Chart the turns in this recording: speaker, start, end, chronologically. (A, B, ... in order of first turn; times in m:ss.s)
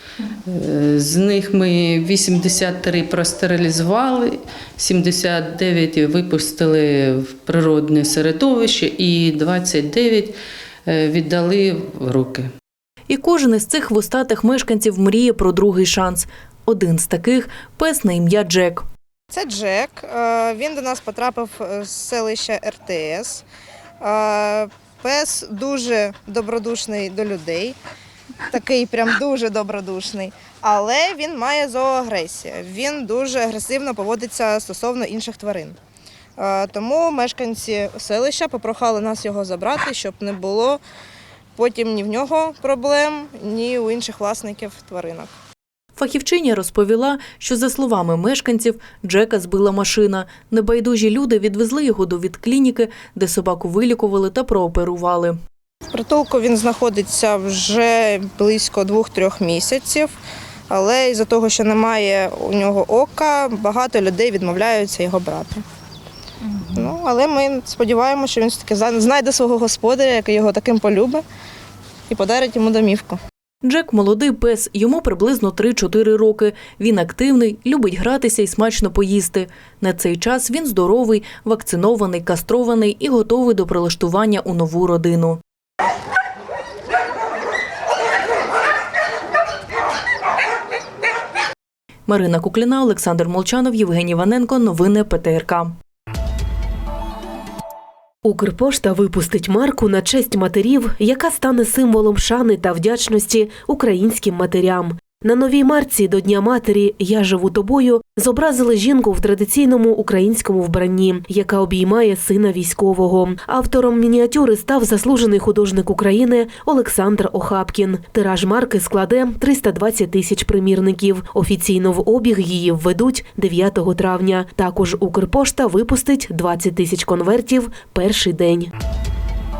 0:00.5-0:10.3 A
0:10.9-0:12.5 A
0:13.1-0:18.8 B
0:19.3-0:23.4 C
0:24.0-0:27.8 C
0:28.5-0:35.8 C
0:36.4-0:40.8 C
0:41.6-0:45.3 C
0:46.0-0:55.4 B
0:55.9-1:00.1 C
1:00.7-1:05.6 C
1:06.7-1:11.2 C
1:12.1-1:13.2 C
1:13.6-1:25.4 B
1:32.1-1:35.7 B
1:38.2-2:08.7 D